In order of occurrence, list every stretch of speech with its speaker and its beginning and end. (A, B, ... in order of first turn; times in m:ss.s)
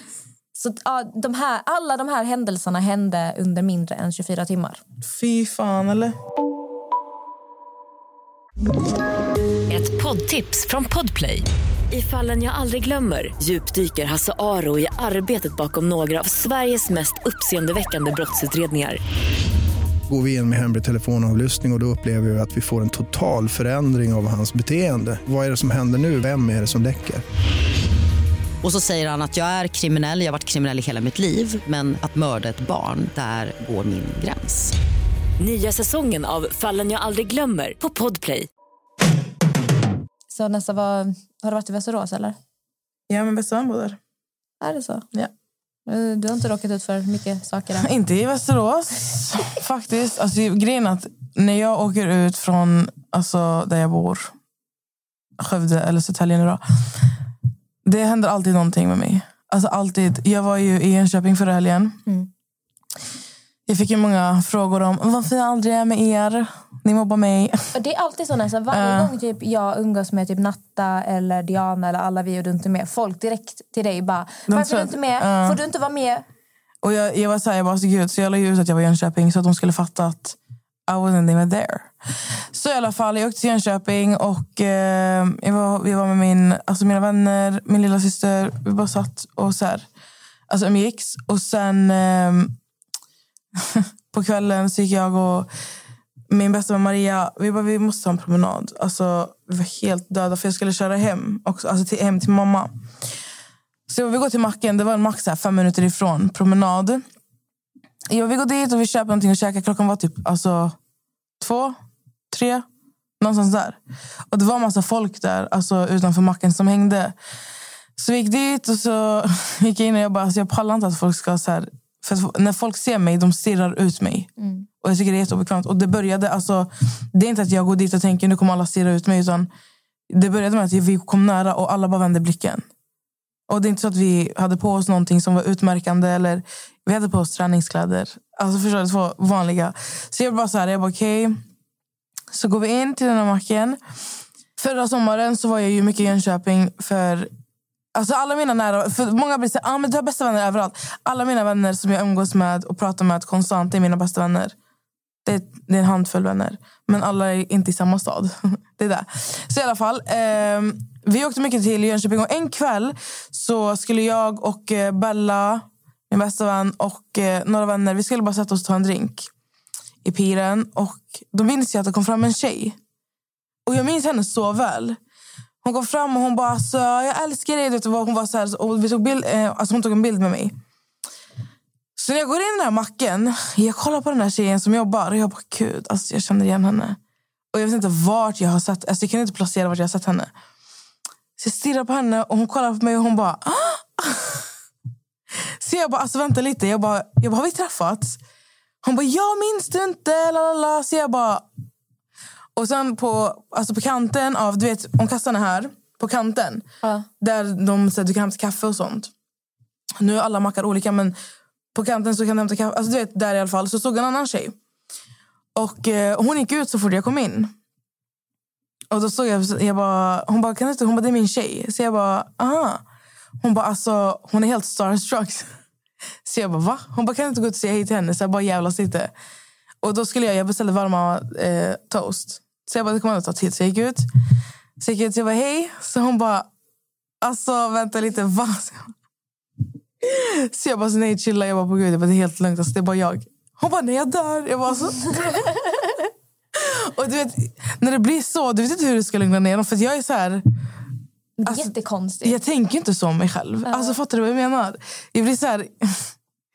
0:00.6-0:04.8 A
0:05.1-0:06.2 B
0:09.7-0:19.0 C
0:20.1-0:27.2 D
0:28.6-0:34.7 E
0:35.4-0:38.5 C
0:40.3-0:42.4 A
0:43.1-0:44.0 B
0:44.6-0:45.0 A
0:45.9-0:47.9 A
0:47.8-0:54.3 B
0:55.4-0:57.0 B
0:57.8-1:02.0 B
1:03.7-1:07.7 B
1:07.7-1:16.2 A
1:08.7-1:09.1 B
1:14.5-1:15.6 B
1:16.8-1:20.4 B
1:20.9-1:21.9 B
1:22.5-1:29.9 B
1:30.5-1:32.6 B
1:33.6-1:35.5 B
1:36.3-1:42.7 B
1:43.9-1:47.0 B
1:48.1-1:50.8 B
1:51.4-1:51.8 B
1:52.3-1:52.6 B
1:53.2-1:53.8 B
1:54.3-1:57.1 B
1:58.0-2:04.3 B
2:04.4-2:04.6 A
2:04.8-2:09.5 B
2:10.1-2:12.6 B
2:13.5-2:21.4 B
2:22.3-2:23.8 B
2:24.6-2:27.3 B
2:27.9-2:34.6 B
2:35.2-2:49.3 B
2:50.0-2:52.8 B
2:53.6-2:55.0 B
2:55.6-3:00.6 B
3:02.0-3:07.0 B
3:07.5-3:10.3 B
3:11.4-3:14.4 B
3:15.6-3:18.2 B
3:18.8-3:21.4 B
3:22.6-3:26.6 B
3:26.8-3:27.1 A
3:27.2-3:29.1 B
3:30.0-3:31.2 B
3:31.7-3:34.6 B
3:35.6-3:37.5 B
3:38.9-3:42.8 B
3:43.4-3:45.5 B
3:46.2-3:49.1 B
3:49.8-3:54.0 B
3:54.8-3:56.5 B
3:57.2-3:58.9 B
4:00.0-4:05.6 B
4:06.6-4:10.4 B
4:11.4-4:12.4 A
4:12.2-4:16.1 B
4:13.7-4:14.0 A